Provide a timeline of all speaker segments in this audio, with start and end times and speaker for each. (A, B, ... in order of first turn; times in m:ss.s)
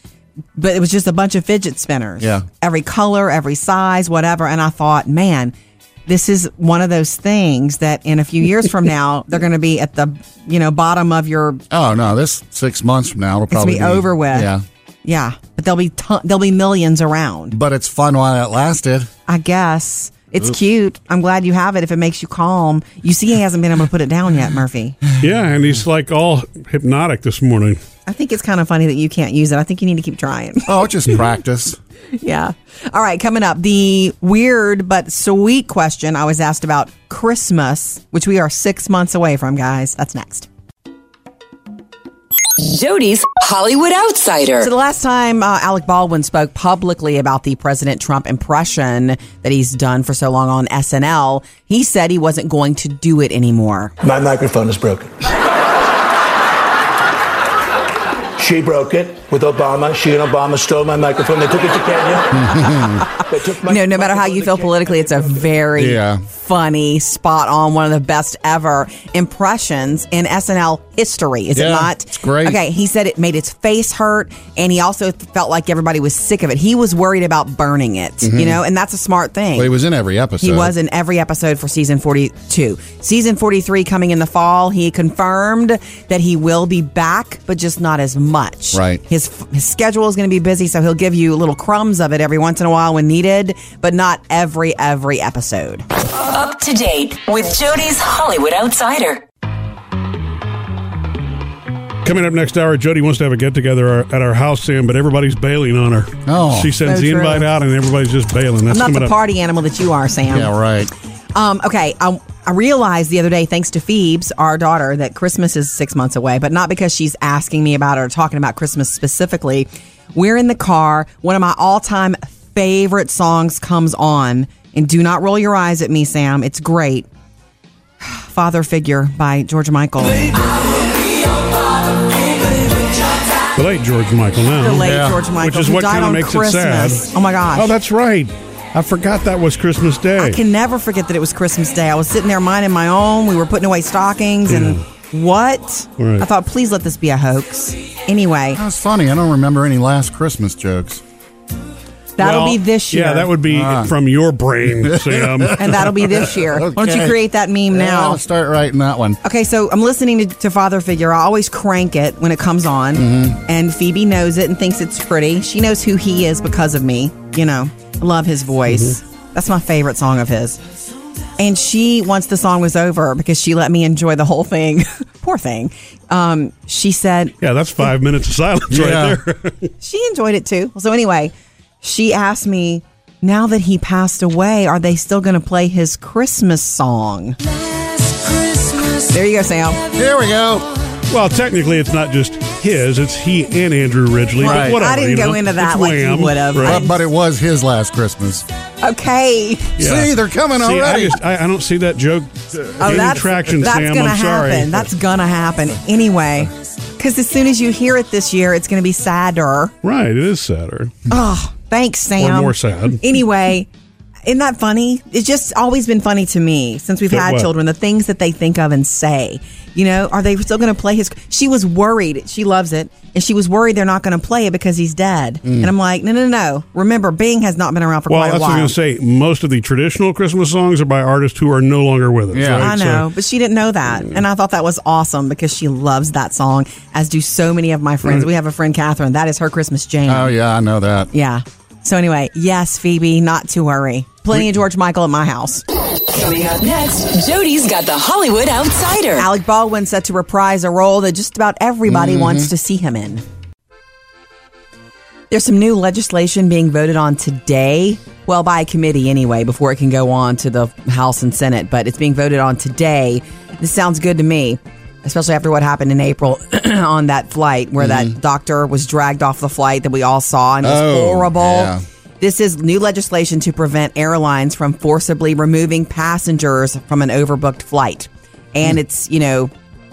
0:00.6-0:05.5 A
0:02.2-0:02.4 B
0:06.1-0:11.6 A
0:11.7-0:14.6 B
0:13.5-0:14.5 A
0:15.0-0:17.5 A
0:17.5-0:19.1 B
0:19.3-0:25.0 A
0:25.2-0:27.8 C
0:28.1-0:30.7 A
0:30.6-0:31.8 B
0:32.2-0:40.5 A
0:42.6-0:44.7 D
0:44.6-0:53.9 A
0:54.0-0:55.2 E
0:58.4-1:05.4 E
1:02.3-1:03.1 B
1:02.6-1:03.1 A
1:03.6-1:19.7 A
1:05.8-1:06.2 B
1:11.5-1:12.6 B
1:18.2-1:18.6 B
1:19.6-1:20.7 B
1:20.4-1:35.8 A
1:28.7-1:29.0 B
1:36.1-1:39.2 D
1:42.0-1:49.1 C
1:46.2-1:46.7 B
1:46.8-1:47.4 A
1:48.7-1:50.5 A
1:50.3-1:50.9 B
1:51.3-2:07.1 A
2:08.0-2:10.4 A
2:13.5-2:20.4 C
2:14.6-2:17.7 A
2:14.8-2:15.2 B
2:20.2-2:28.6 A
2:24.5-2:24.8 C
2:26.0-2:26.3 C
2:28.5-2:31.0 B
2:32.2-2:33.3 A
2:32.2-2:35.8 C
2:33.4-2:33.9 B
2:34.8-2:37.2 B
2:35.6-2:38.2 A
2:37.7-2:39.2 B
2:39.2-2:50.6 A
2:42.9-2:43.4 B
2:48.7-2:49.0 C
2:51.4-2:57.4 A
2:57.4-2:59.7 C
2:58.7-2:59.2 B
2:59.8-3:07.4 A
3:08.9-3:09.9 A
3:09.9-3:10.7 B
3:11.1-3:16.8 C
3:14.4-3:16.9 A
3:14.4-3:14.8 B
3:16.6-3:18.4 B
3:18.8-3:19.8 A
3:19.8-3:21.2 B
3:19.8-3:24.9 C
3:22.8-3:29.7 A
3:29.8-3:30.9 C
3:31.1-3:33.7 A
3:32.2-3:33.0 C
3:34.2-3:48.7 A
3:37.1-3:37.5 C
3:45.4-3:45.7 B
3:48.1-3:53.1 C
3:52.3-3:52.7 B
3:52.5-4:00.3 A
4:00.1-4:01.1 B
4:01.1-4:05.6 A
4:06.1-4:09.3 D
4:09.2-4:13.2 A
4:11.9-4:12.5 B
4:15.3-4:39.5 A
4:27.8-4:28.1 B
4:30.6-4:31.8 B